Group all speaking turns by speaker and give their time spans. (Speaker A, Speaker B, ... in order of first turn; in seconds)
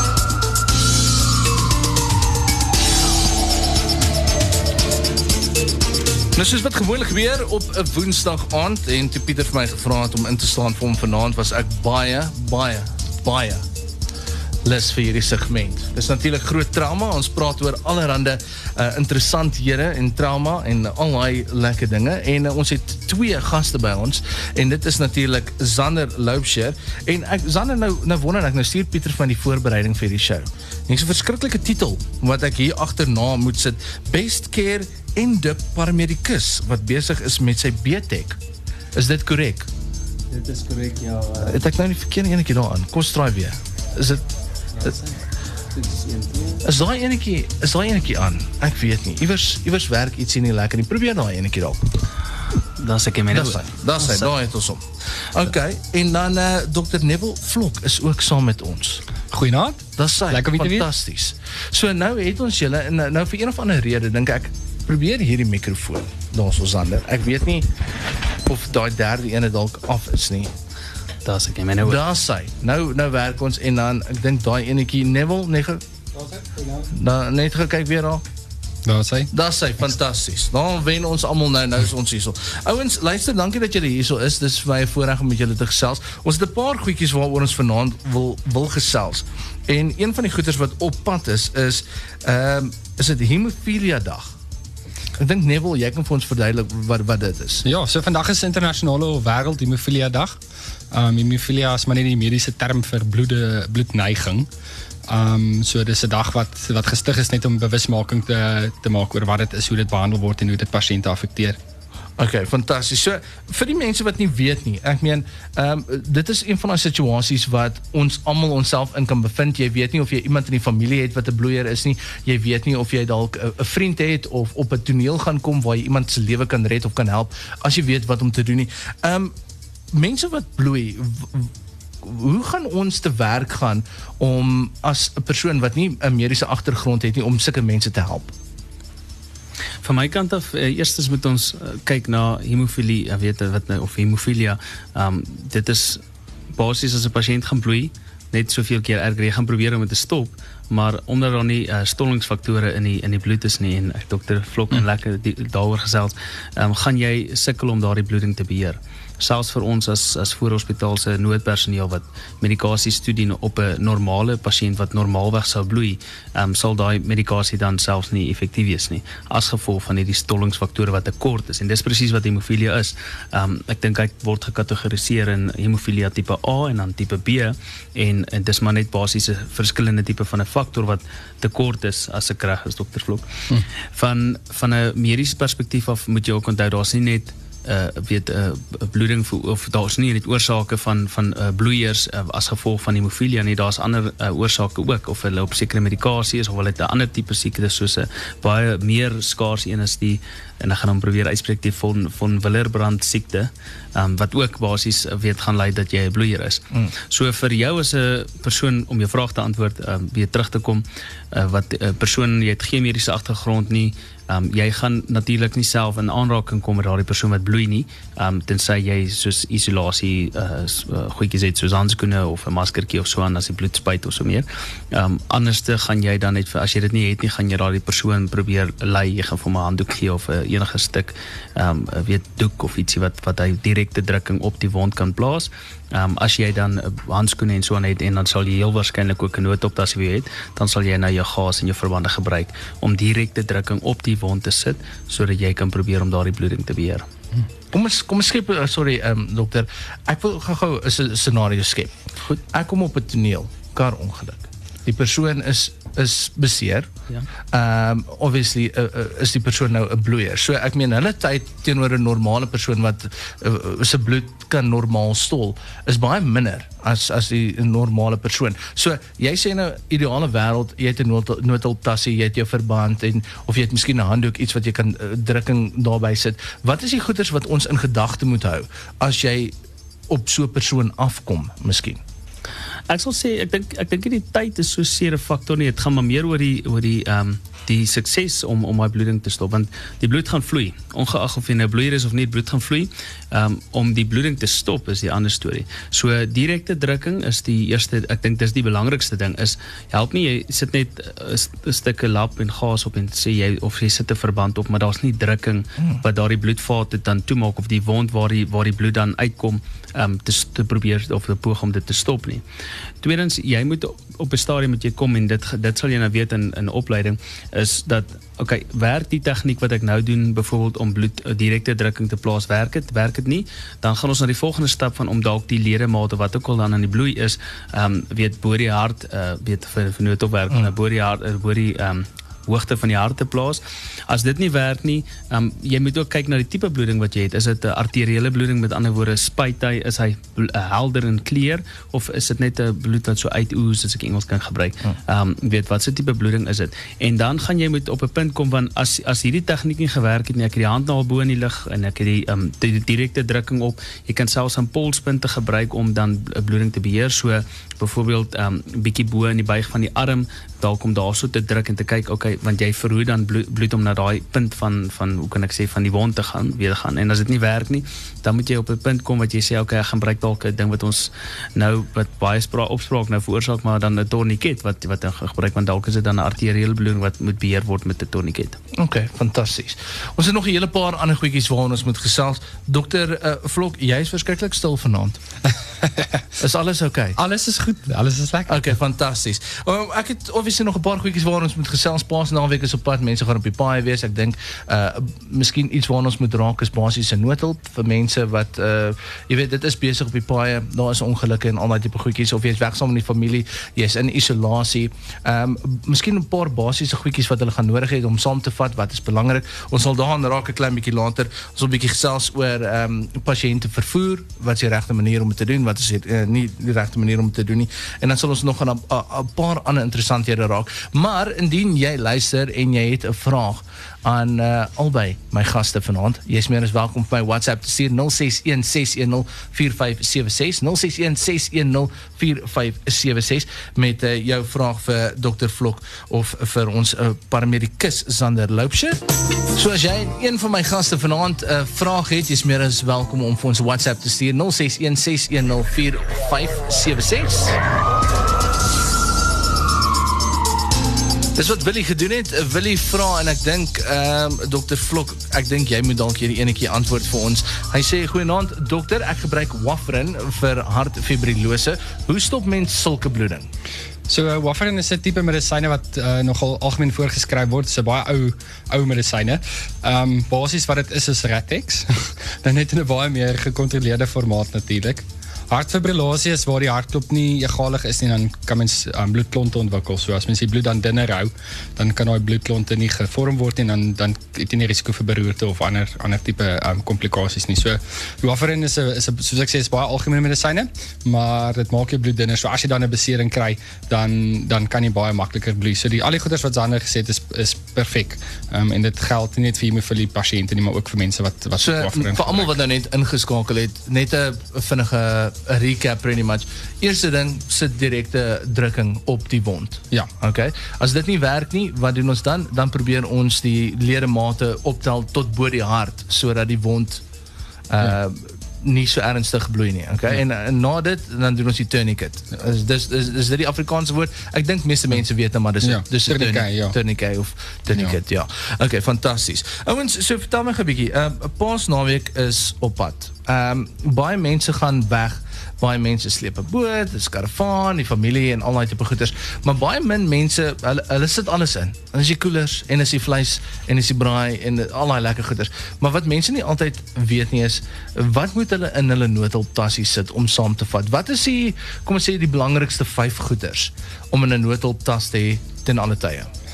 Speaker A: 6.3-13.6, 14.6-38.4, 38.9-39.7, 41.4-44.2, 46.6-51.8, 53.3-59.0, 60.0-67.7, 68.5-70.5, 71.8-75.8, 76.9-78.2, 79.3-94.3, 95.2-97.6, 112.2-129.3, 129.9-131.5, 132.0-138.3, 247.7-256.9, 257.5-279.5, 280.1-282.0, 378.8-385.2, 386.4-387.2, 388.5-439.0, 439.5-447.6, 451.4-463.5, 501.6-517.0, 517.7-556.3
Speaker B: 40.3-41.6, 45.7-46.6, 52.8-54.3, 71.2-72.0, 139.8-146.0, 146.5-247.1, 282.9-312.4, 313.0-378.6
Speaker C: 59.3-60.9, 76.2-76.8, 78.8-79.3, 97.6-100.4, 100.9-104.5, 105.1-111.6, 387.2-388.7, 464.1-502.6, 525.6-526.8